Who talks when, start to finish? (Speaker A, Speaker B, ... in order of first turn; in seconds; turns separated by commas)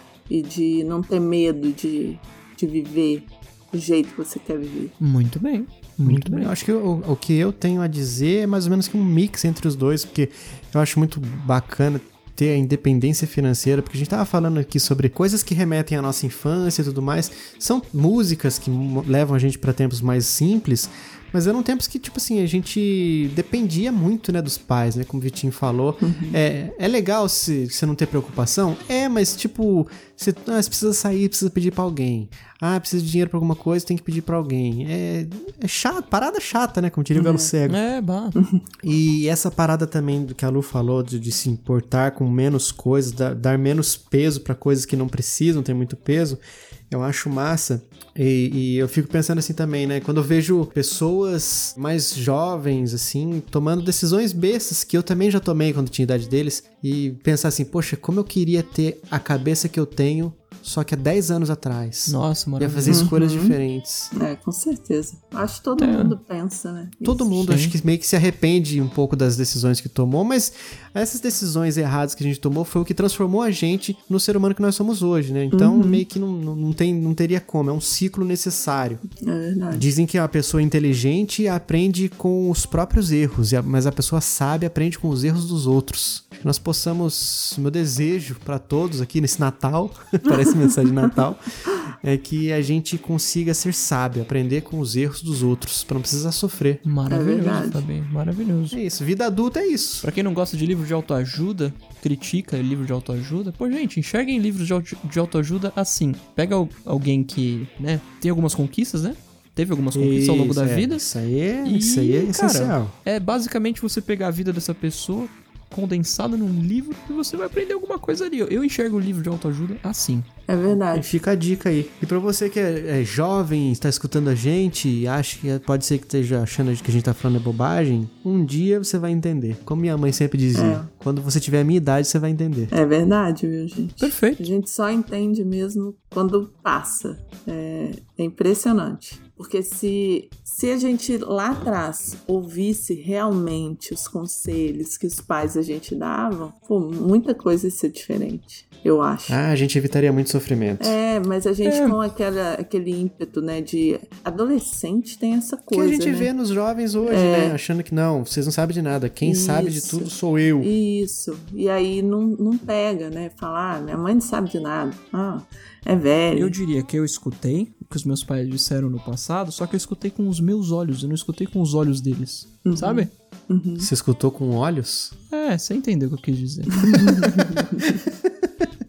Speaker A: 0.3-5.0, Speaker B: 5.0-6.5, Speaker C: 6.0-37.8, Speaker A: 26.0-26.4, Speaker A: 37.1-37.5, Speaker B: 37.7-38.4, Speaker A: 38.4-38.6, Speaker C: 38.8-64.1, Speaker B: 62.1-63.1, Speaker A: 62.9-63.6, Speaker A: 64.1-67.4, Speaker B: 65.8-66.2, Speaker C: 67.0-79.0, Speaker B: 67.4-67.8, Speaker A: 75.5-76.0, Speaker A: 79.2-79.9, Speaker C: 79.7-96.8, Speaker B: 96.8-98.8, Speaker A: 97.1-97.8, Speaker C: 98.7-100.1, Speaker B: 100.0-111.0, Speaker C: 109.9-112.9, Speaker B: 111.6-120.3, Speaker A: 120.5-121.2, Speaker C: 120.9-132.7, Speaker A: 130.5-130.9, Speaker A: 132.7-149.4, Speaker B: 134.0-134.4, Speaker C: 149.3-151.0, Speaker A: 150.8-156.3, Speaker B: 151.7-152.0, Speaker C: 155.7-160.7, Speaker A: 157.1-157.6, Speaker A: 159.2-166.6, Speaker B: 166.3-173.1, Speaker A: 172.7-173.9, Speaker C: 173.8-175.1, Speaker B: 175.3-178.1, Speaker A: 177.2-177.5